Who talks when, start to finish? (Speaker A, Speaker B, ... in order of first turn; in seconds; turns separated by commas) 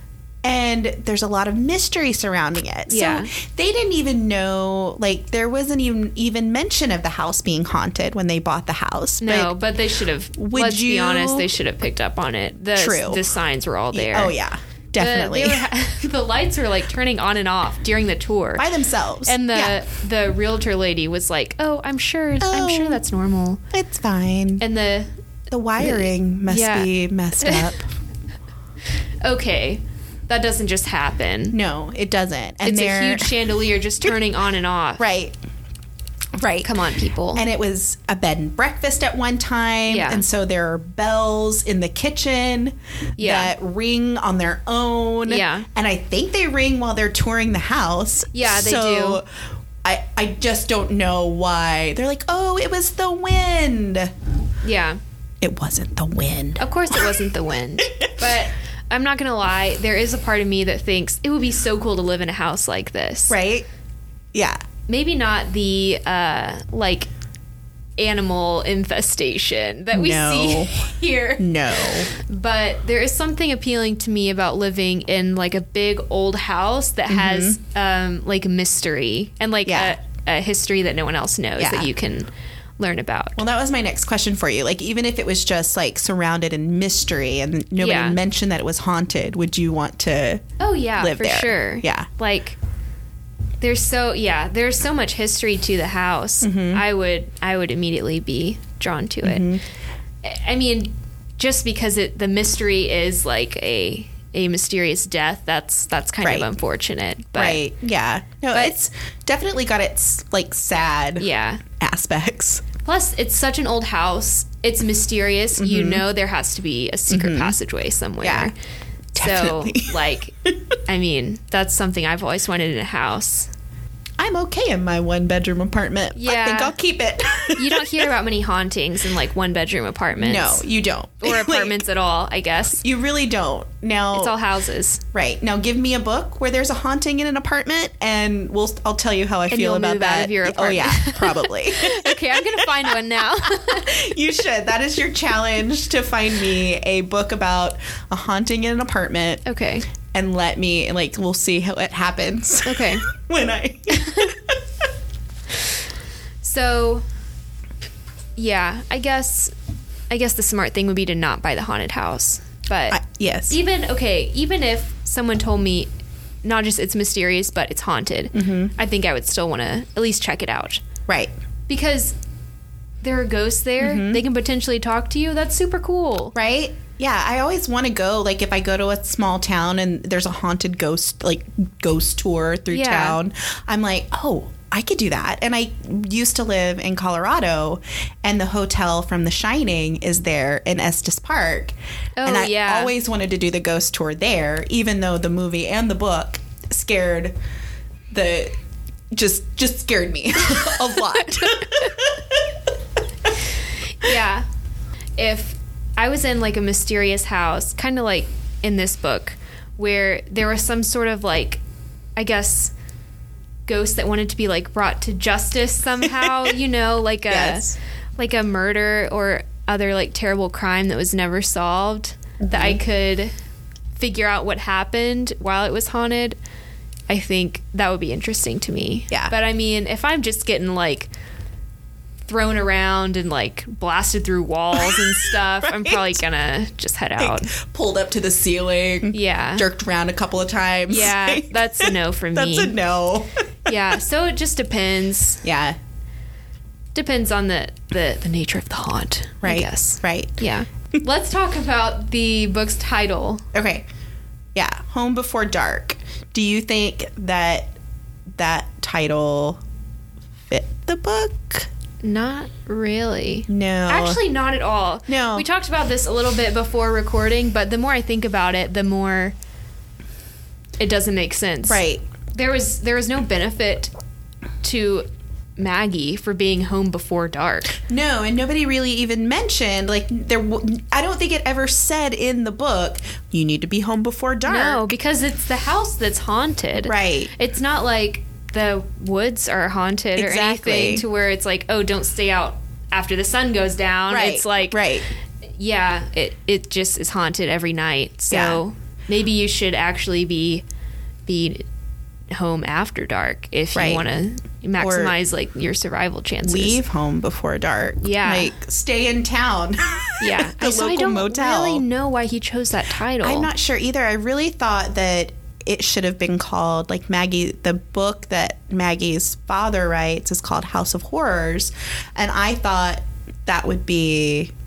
Speaker A: 0.4-9.5, Speaker B: 2.9-3.3, Speaker B: 9.2-14.3, Speaker A: 10.4-11.5, Speaker A: 12.8-13.2, Speaker A: 13.9-15.7, Speaker B: 15.0-18.7, Speaker A: 18.6-19.8, Speaker B: 19.2-23.6, Speaker A: 22.4-23.0, Speaker A: 23.7-24.6, Speaker B: 24.6-25.1, Speaker A: 25.5-27.9, Speaker B: 25.8-27.7, Speaker B: 29.2-31.6, Speaker A: 31.5-33.3, Speaker B: 32.6-35.0, Speaker A: 35.0-35.3, Speaker A: 36.4-36.7, Speaker B: 36.6-37.4, Speaker A: 37.3-49.2, Speaker B: 39.9-40.2, Speaker B: 43.2-43.5, Speaker B: 45.2-45.7, Speaker B: 48.3-49.2, Speaker A: 49.8-54.1, Speaker B: 54.6-55.0, Speaker A: 55.4-57.2, Speaker B: 56.6-63.4, Speaker A: 57.8-58.2, Speaker A: 63.3-63.6, Speaker A: 64.3-64.6, Speaker B: 64.9-67.1, Speaker B: 68.0-83.4, Speaker A: 69.9-70.8, Speaker A: 71.4-72.1, Speaker A: 77.1-77.6, Speaker A: 79.7-80.0, Speaker A: 81.6-81.9, Speaker A: 83.4-90.4, Speaker B: 87.8-88.2, Speaker B: 90.6-92.6, Speaker A: 91.0-92.1, Speaker B: 93.6-99.5, Speaker A: 96.4-96.8, Speaker A: 99.2-99.6, Speaker B: 100.2-107.6, Speaker A: 106.2-106.5, Speaker A: 107.3-112.6, Speaker B: 111.2-111.6, Speaker B: 112.8-118.5, Speaker A: 115.6-116.0, Speaker A: 117.1-117.5, Speaker A: 118.2-118.5, Speaker A: 119.2-120.8, Speaker B: 119.2-120.3, Speaker B: 120.8-123.5, Speaker A: 124.2-128.1, Speaker B: 126.2-126.7, Speaker B: 127.5-130.6, Speaker A: 130.2-131.8, Speaker B: 131.2-132.8, Speaker A: 132.8-134.3, Speaker B: 134.1-135.0, Speaker A: 135.1-149.4, Speaker B: 139.5-144.1, Speaker B: 149.4-149.9, Speaker A: 150.1-154.6, Speaker B: 152.6-153.0, Speaker B: 153.9-154.3, Speaker B: 156.4-157.0, Speaker B: 158.3-159.5, Speaker B: 160.1-163.0, Speaker A: 162.9-163.6, Speaker B: 163.5-165.9, Speaker B: 166.4-170.8, Speaker A: 168.3-168.7, Speaker B: 171.7-172.2, Speaker B: 173.0-176.3, Speaker A: 173.8-174.2, Speaker A: 176.3-197.3, Speaker B: 182.7-183.2, Speaker B: 192.2-192.9, Speaker A: 198.1-198.5, Speaker A: 199.1-202.6, Speaker B: 200.6-201.9, Speaker B: 204.0-204.4, Speaker B: 205.2-211.6, Speaker B: 212.2-212.7, Speaker B: 213.7-223.3, Speaker A: 217.3-217.7, Speaker A: 222.4-222.8, Speaker B: 224.0-226.4, Speaker B: 227.1-231.1, Speaker B: 232.3-237.5, Speaker A: 234.8-236.2, Speaker A: 237.2-243.7, Speaker B: 239.1-239.6, Speaker B: 240.9-242.7, Speaker B: 243.7-245.4, Speaker A: 245.4-245.8, Speaker B: 246.9-253.4, Speaker A: 249.4-250.3, Speaker A: 253.5-253.8, Speaker A: 254.5-257.7, Speaker A: 258.4-259.6, Speaker A: 260.5-261.7, Speaker B: 262.0-269.3, Speaker A: 263.5-264.2, Speaker A: 265.1-265.4, Speaker B: 270.8-273.9, Speaker A: 271.7-272.0, Speaker B: 274.6-277.8, Speaker A: 277.8-284.9, Speaker B: 284.4-294.8, Speaker A: 286.8-287.3, Speaker A: 290.1-291.0, Speaker A: 294.1-295.1, Speaker B: 295.6-300.6, Speaker A: 298.3-298.6, Speaker B: 301.2-301.6, Speaker B: 302.3-306.8, Speaker A: 303.7-304.0, Speaker A: 304.8-305.1, Speaker A: 306.4-311.8, Speaker B: 308.0-308.5, Speaker B: 310.2-313.5, Speaker A: 313.2-324.5